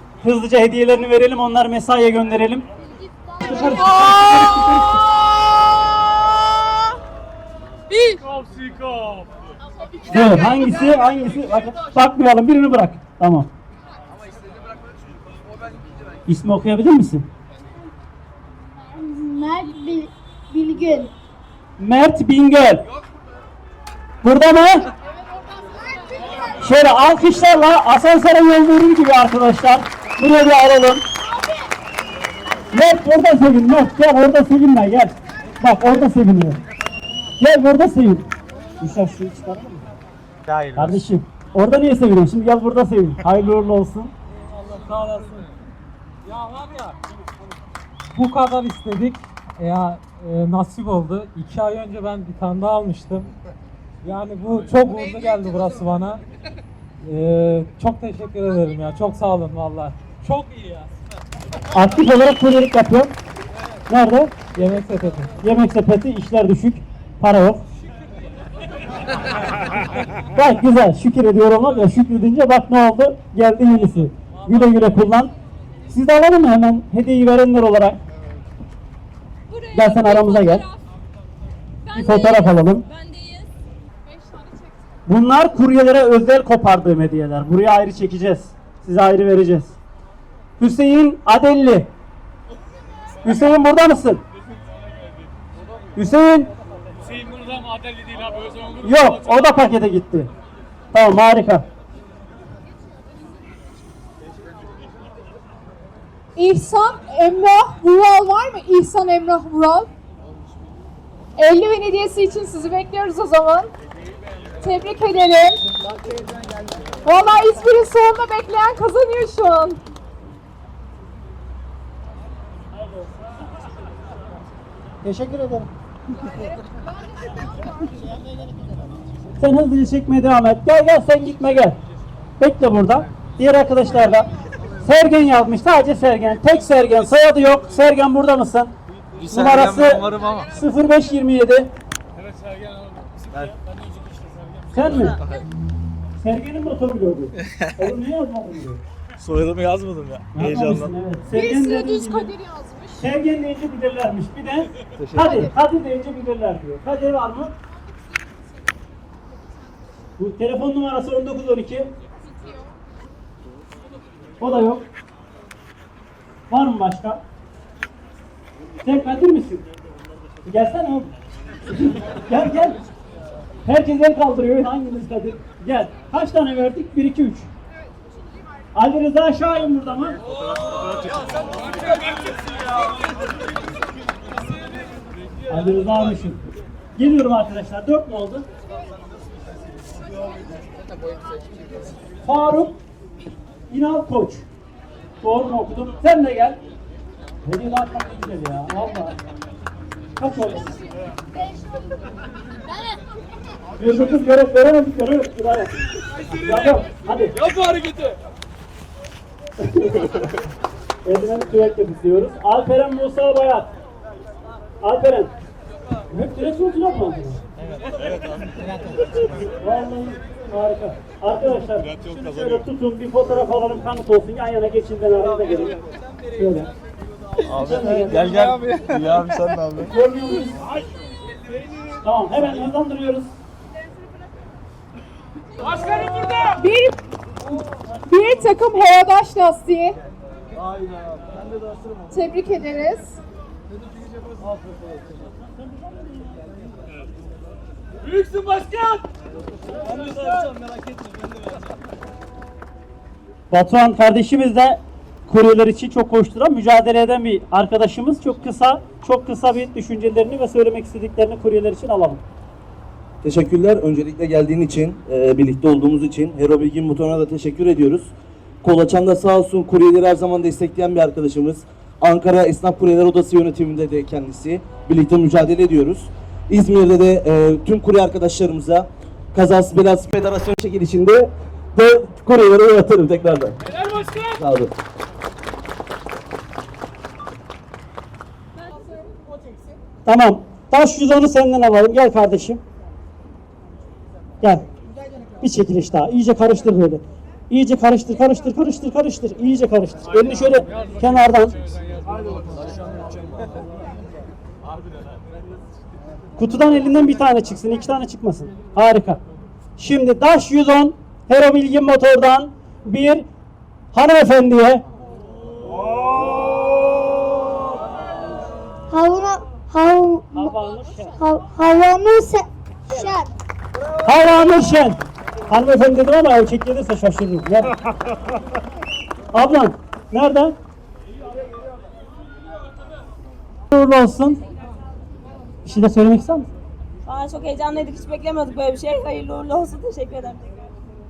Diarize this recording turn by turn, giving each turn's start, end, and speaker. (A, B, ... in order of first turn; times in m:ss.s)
0:00.2-0:02.6 A
0:03.4-0:05.0 A
0:10.1-0:13.5 A
0:10.1-0:10.7 B
0:16.3-0:17.3 A
0:18.8-0:21.1 B
0:21.8-0:22.9 A
0:24.2-0:24.9 A
0:26.6-0:31.0 A
0:32.7-0:36.6 A
0:37.4-0:38.3 A
0:38.8-0:39.8 A
0:40.5-0:41.0 C
0:40.7-0:44.1 A
0:44.5-0:45.5 D
0:46.2-0:47.0 D
0:48.1-0:53.3 D
0:54.0-0:56.2 D
0:57.0-1:00.9 D
1:01.7-1:03.1 A
1:03.9-1:04.4 A
1:04.5-1:05.4 D
1:05.4-1:07.6 A
1:10.3-1:15.3 A
1:15.9-1:18.0 A
1:19.5-1:20.8 B
1:19.7-1:20.6 A
1:21.8-1:23.5 B
1:21.9-1:22.8 A
1:25.1-1:29.8 A
1:30.6-1:31.9 A
1:33.2-1:34.2 A
1:36.0-1:36.5 A
1:38.8-1:40.3 A
1:40.9-1:41.6 A
1:46.4-1:49.9 E
1:51.4-1:53.7 E
1:54.6-1:55.6 E
1:57.0-1:59.8 E
2:05.0-2:05.7 A
2:09.4-2:11.8 A
2:12.4-2:14.3 A
2:14.8-2:18.7 A
2:19.2-2:20.5 C
2:19.2-2:21.7 A
2:24.7-2:25.2 A
2:26.2-2:28.8 A
2:29.2-2:30.9 C
2:30.3-2:32.3 A
2:31.3-2:33.1 E
2:33.0-2:37.5 A
2:35.0-2:35.5 C
2:40.2-2:41.9 A
2:44.4-2:44.9 A
2:46.5-2:47.2 A
2:48.8-2:49.6 A
2:50.4-2:51.1 A
2:51.7-2:52.8 A
2:53.6-2:57.5 A
2:58.7-3:00.2 A
3:05.5-3:06.4 A
3:07.0-3:08.4 A
3:12.2-3:12.8 A
3:13.7-3:14.4 A
3:15.2-3:16.6 A
3:17.4-3:19.1 A
3:20.2-3:20.8 A
3:23.8-3:25.7 A
3:26.2-3:27.5 A
3:29.6-3:30.3 A
3:31.0-3:33.7 A
3:34.8-3:35.3 A
3:36.1-3:37.4 A
3:39.6-3:45.8 A
3:46.4-3:46.7 A
3:47.5-3:49.9 C
3:47.6-3:48.5 A
3:49.9-3:50.7 A
3:52.0-3:53.3 A
3:56.4-3:57.0 E
3:58.1-4:00.0 E
4:02.1-4:03.2 E
4:13.5-4:22.2 A
4:23.2-4:28.1 F
4:28.6-4:43.6 F
4:44.3-4:44.7 F
4:50.0-4:52.6 A
4:55.4-5:01.6 A
5:06.4-5:09.2 A
5:09.8-5:13.2 A
5:13.9-5:14.8 A
5:18.9-5:20.6 G
5:20.3-5:21.1 A
5:21.1-5:23.3 G
5:24.0-5:25.0 A
5:25.5-5:27.8 A
5:29.3-5:30.5 A
5:33.7-5:34.4 A
5:35.6-5:36.5 A
5:37.0-5:40.4 B